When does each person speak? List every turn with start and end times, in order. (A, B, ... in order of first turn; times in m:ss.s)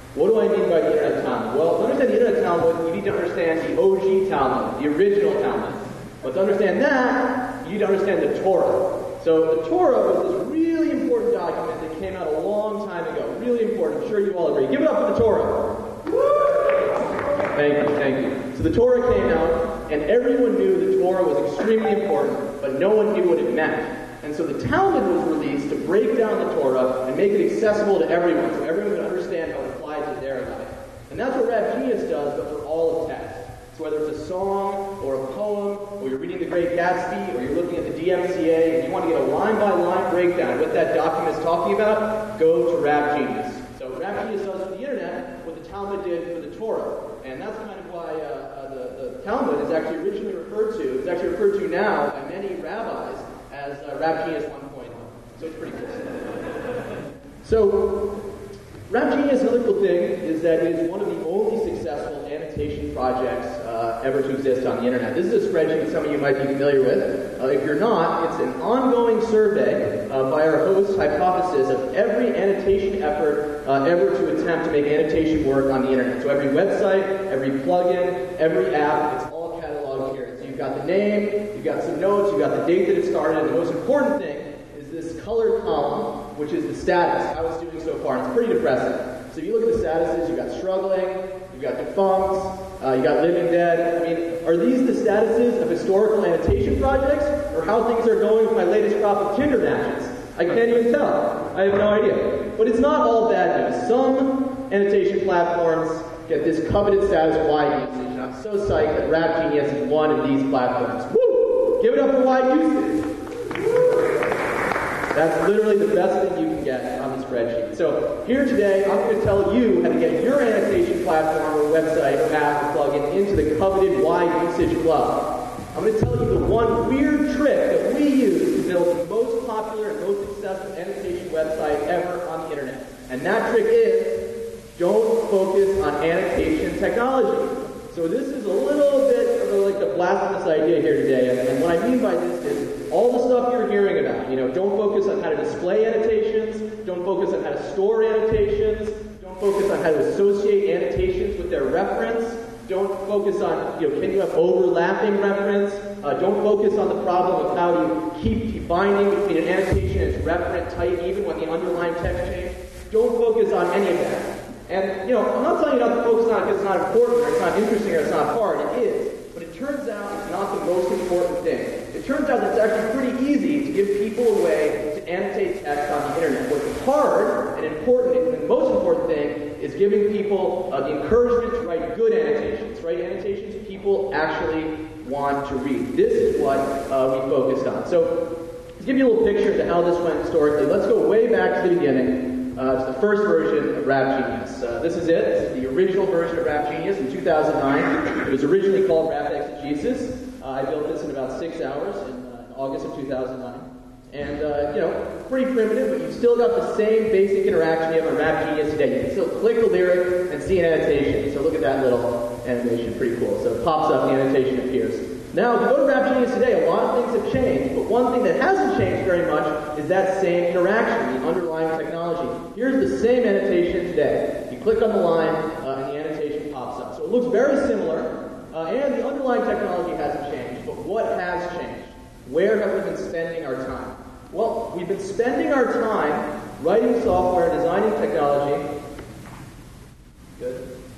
0:00.1-0:15.8 A
0:17.5-0:56.2 A
0:57.4-0:58.2 A
0:58.9-1:53.1 A
1:55.1-3:58.7 A
4:00.4-4:00.7 A